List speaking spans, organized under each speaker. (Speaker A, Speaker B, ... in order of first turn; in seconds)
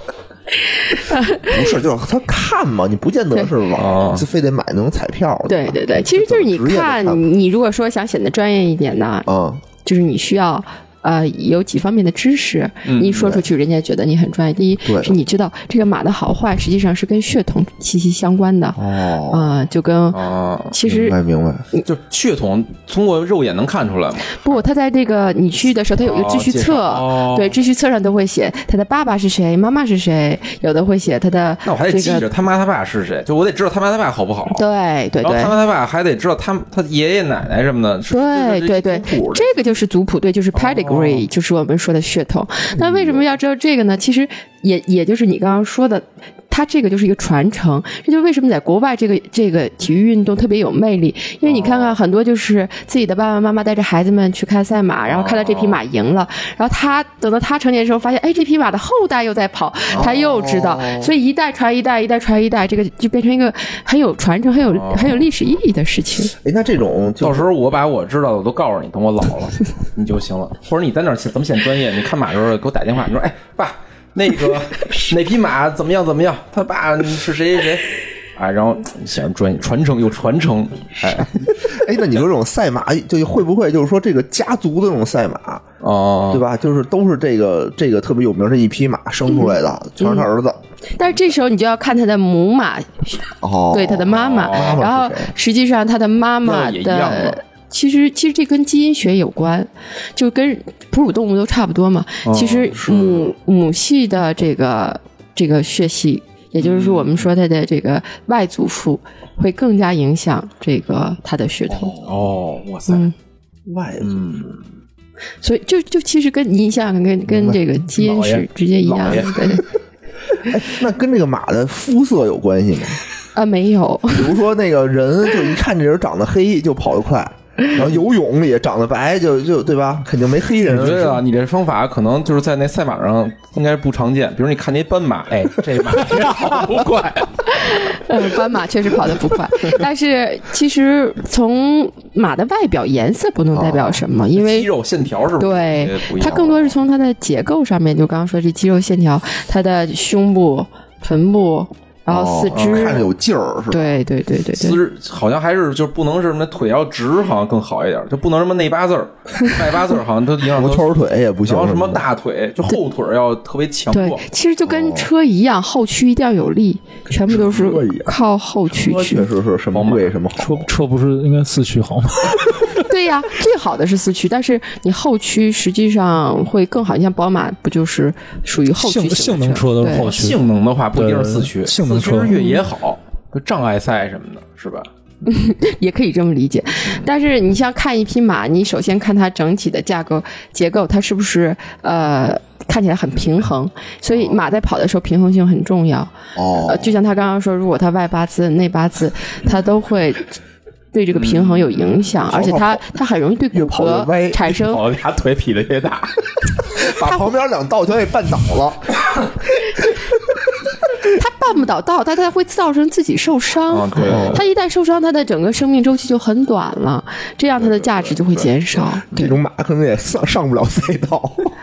Speaker A: 0.9-1.5, 5.5-9.3, 9.8-20.2, 20.7-21.2, 24.3-32.3, 34.5-35.5, 38.1-66.3, 89.3-90.3, 91.0-112.0, 112.9-113.1, 115.4-119.7, 123.3-124.4, 137.4-144.7, 145.4-153.0, 153.7-154.8, 163.9-169.3, 172.8-180.1, 182.3-182.6, 185.2-200.4, 200.9-204.8, 211.0-219.3
Speaker B: 1.4-7.2, 9.3-9.6, 13.2-13.4, 14.8-15.2, 18.8-19.5, 20.8-21.7, 59.9-61.1, 66.4-67.5, 81.0-85.6, 86.3-90.6, 93.4-95.3, 111.7-112.1, 113.7-114.2, 117.3-117.6, 120.4-123.0, 124.1-131.2, 143.5-144.0, 152.1-154.0, 160.5-162.0, 164.7-165.1, 167.1-168.1, 168.7-170.7, 196.3-196.9, 202.2-202.8, 203.5-204.5, 206.8-209.2, 214.1-214.4, 219.1-221.5
Speaker C: 3.8-4.2, 12.8-13.2, 20.1-20.7, 21.8-24.4, 26.0-27.6, 31.6-34.6, 35.2-39.5, 40.5-41.2, 42.8-43.1, 51.4-52.0, 55.1-55.8, 64.7-65.2, 67.2-81.4, 85.8-86.5, 94.2-94.8, 96.4-97.4, 102.2-103.3, 106.6-107.3, 112.0-113.0, 114.0-114.6, 118.8-119.6, 130.6-137.9, 144.3-146.6, 152.5-153.1, 154.5-164.2, 169.7-170.1, 179.9-184.9, 201.1-202.1, 204.5-206.9, 213.7-214.4, 217.6-218.5
Speaker D: 117.9-118.5, 170.4-172.8, 178.7-180.4, 180.9-182.5